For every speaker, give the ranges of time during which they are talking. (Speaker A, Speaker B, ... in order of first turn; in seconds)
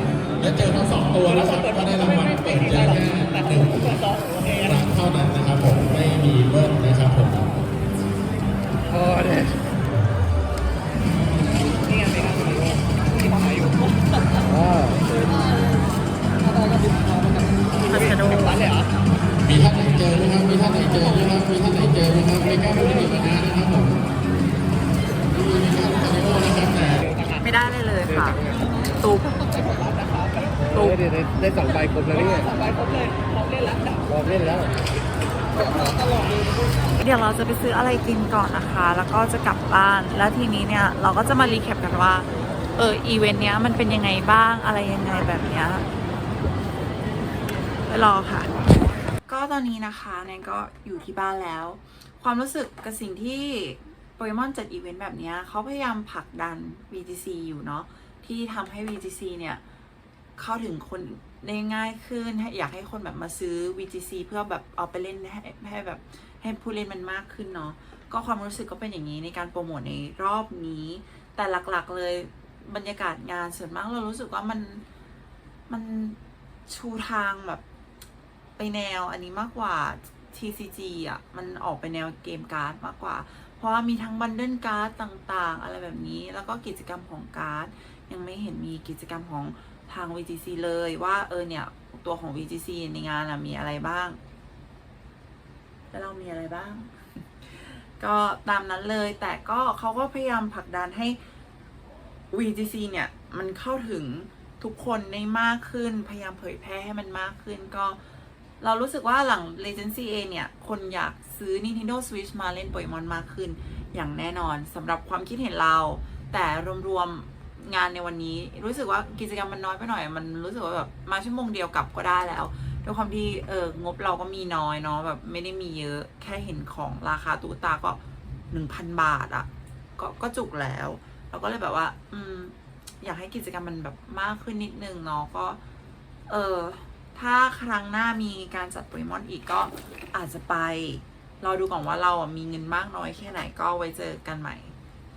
Speaker A: 0.4-4.0, 4.5-7.5, 19.4-24.0, 25.3-27.0
Speaker B: 8.9-9.6, 14.5-15.3, 28.1-28.5, 30.6-32.5, 34.1-34.7
Speaker C: 17.8-18.7, 27.4-29.4, 37.0-45.9, 47.9-48.5, 49.3-59.6, 60.4-74.8, 75.7-77.6, 78.6-94.2, 95.9-97.0, 98.0-101.2, 102.3-108.0, 108.6-128.0, 128.5-135.6, 136.3-144.7